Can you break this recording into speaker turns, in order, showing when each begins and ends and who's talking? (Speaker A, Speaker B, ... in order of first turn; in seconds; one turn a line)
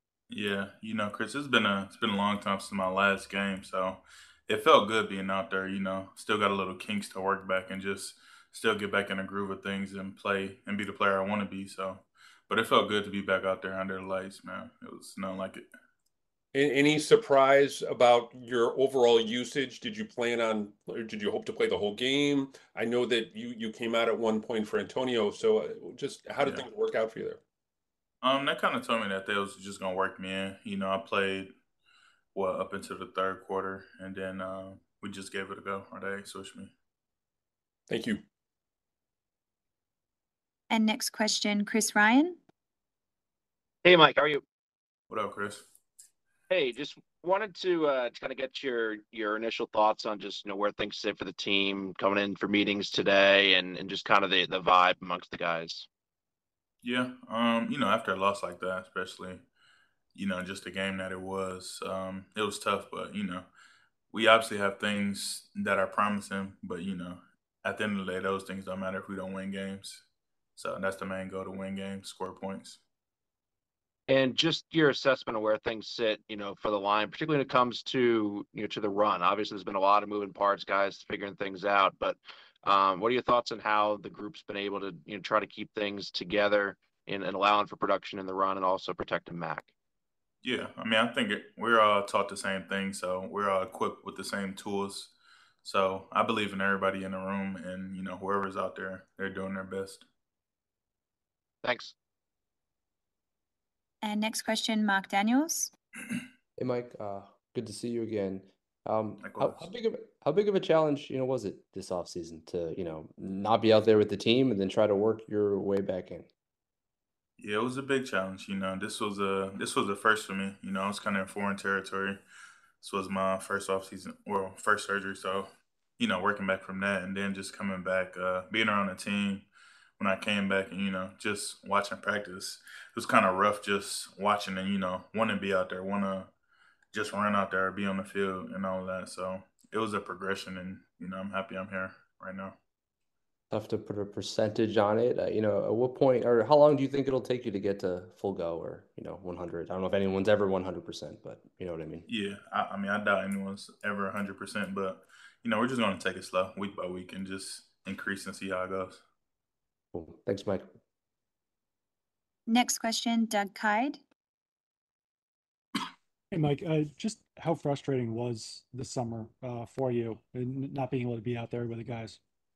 Speaker A: 0.3-15.7
Speaker B: 16.5-27.4
Speaker A: 28.2-31.5
Speaker A: 32.3-36.7
Speaker B: 37.9-38.2
Speaker C: 40.7-42.4
Speaker D: 43.8-44.4
Speaker A: 45.1-45.6
Speaker D: 46.5-55.9
Speaker A: 56.8-59.5
Speaker A: 60.1-63.5
Speaker A: 64.1-72.8
Speaker D: 74.1-89.7
Speaker A: 90.4-100.1
Speaker D: 101.6-101.9
Speaker C: 104.0-105.7
Speaker E: 106.6-116.3
Speaker A: 109.2-109.7
Speaker A: 117.4-122.2
Speaker A: 122.8-129.5
Speaker A: 130.0-136.3
Speaker A: 136.9-142.6
Speaker E: 143.5-152.1
Speaker A: 152.1-159.0
Speaker E: 159.9-160.7
Speaker C: 162.5-164.0
Speaker F: 166.3-172.2